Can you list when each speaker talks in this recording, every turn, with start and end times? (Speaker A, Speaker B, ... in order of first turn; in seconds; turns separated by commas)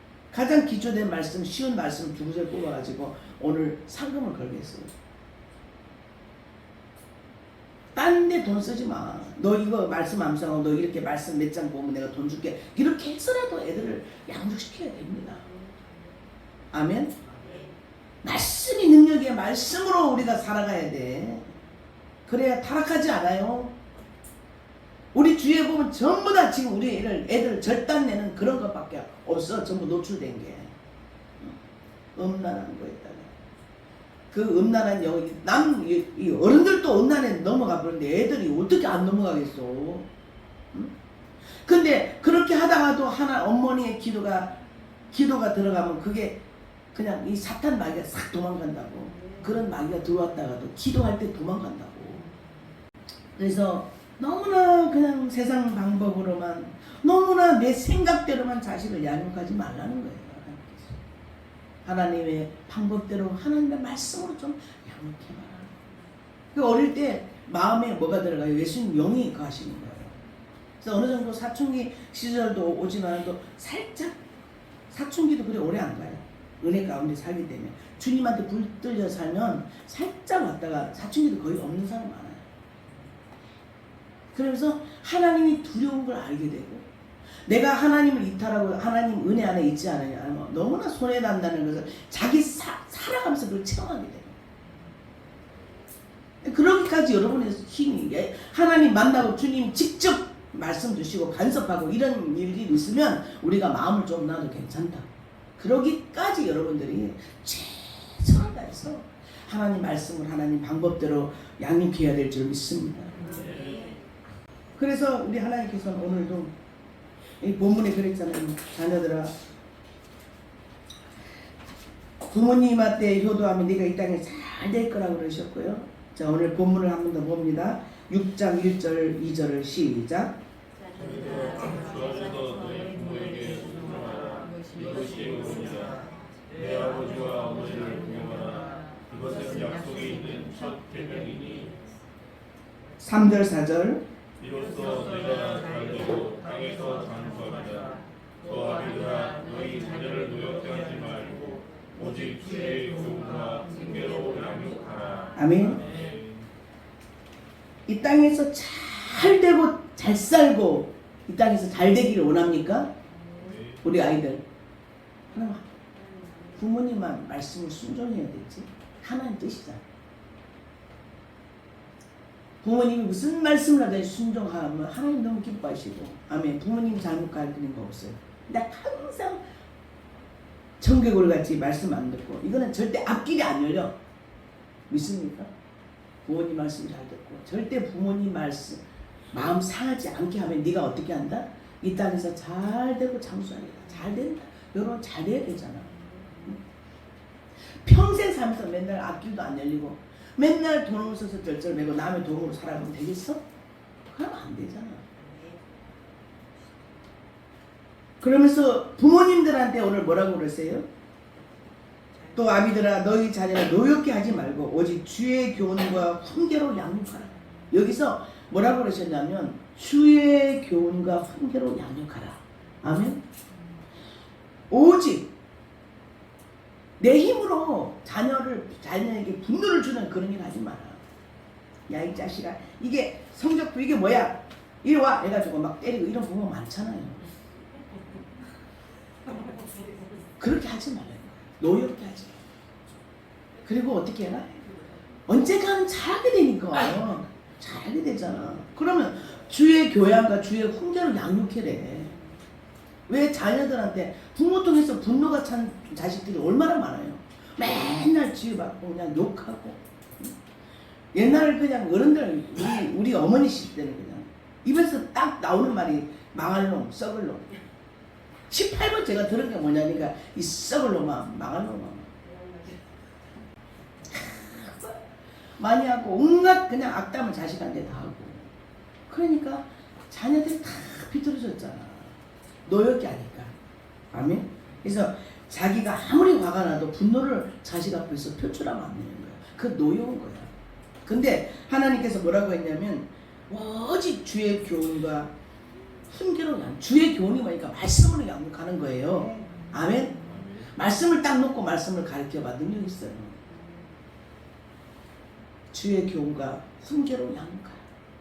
Speaker A: 0.3-4.9, Speaker A: 8.0-15.5, Speaker A: 16.7-17.2, Speaker A: 18.2-21.6, Speaker A: 22.3-23.7, Speaker A: 25.1-30.8, Speaker A: 32.2-33.3, Speaker A: 34.3-40.1, Speaker A: 41.6-44.6, Speaker A: 45.1-46.4, Speaker A: 46.9-52.3, Speaker A: 53.4-61.0, Speaker A: 61.9-65.7, Speaker A: 66.5-70.2, Speaker A: 70.8-74.2, Speaker A: 74.9-82.5, Speaker A: 84.3-86.9, Speaker A: 87.5-94.4, Speaker A: 96.4-113.5, Speaker B: 113.3-114.0, Speaker A: 114.8-116.5, Speaker A: 117.4-119.4, Speaker A: 122.2-130.4, Speaker B: 131.0-136.0, Speaker B: 136.6-141.7, Speaker A: 143.0-144.0, Speaker B: 144.4-155.3, Speaker A: 155.3-155.8, Speaker B: 155.8-156.3, Speaker A: 157.9-162.9, Speaker B: 163.4-163.8, Speaker A: 163.8-164.4, Speaker A: 165.3-165.7, Speaker A: 166.6-169.8, Speaker A: 172.6-179.4, Speaker A: 180.8-184.0, Speaker A: 184.9-185.5, Speaker A: 186.2-188.8, Speaker A: 189.3-196.6, Speaker A: 197.8-203.4, Speaker A: 204.1-205.1, Speaker A: 208.2-210.9, Speaker A: 212.3-223.2, Speaker A: 224.7-225.3, Speaker A: 227.0-231.0, Speaker A: 231.9-237.3, Speaker A: 240.4-242.4, Speaker A: 243.7-244.5, Speaker A: 245.3-252.2, Speaker A: 253.1-260.3, Speaker A: 261.1-267.5, Speaker A: 268.5-272.1, Speaker A: 274.1-275.0, Speaker A: 275.6-278.5, Speaker A: 279.1-282.1, Speaker A: 282.7-283.5, Speaker A: 284.1-290.5, Speaker A: 291.1-295.3, Speaker A: 296.1-303.4, Speaker B: 300.2-300.6, Speaker A: 305.7-307.9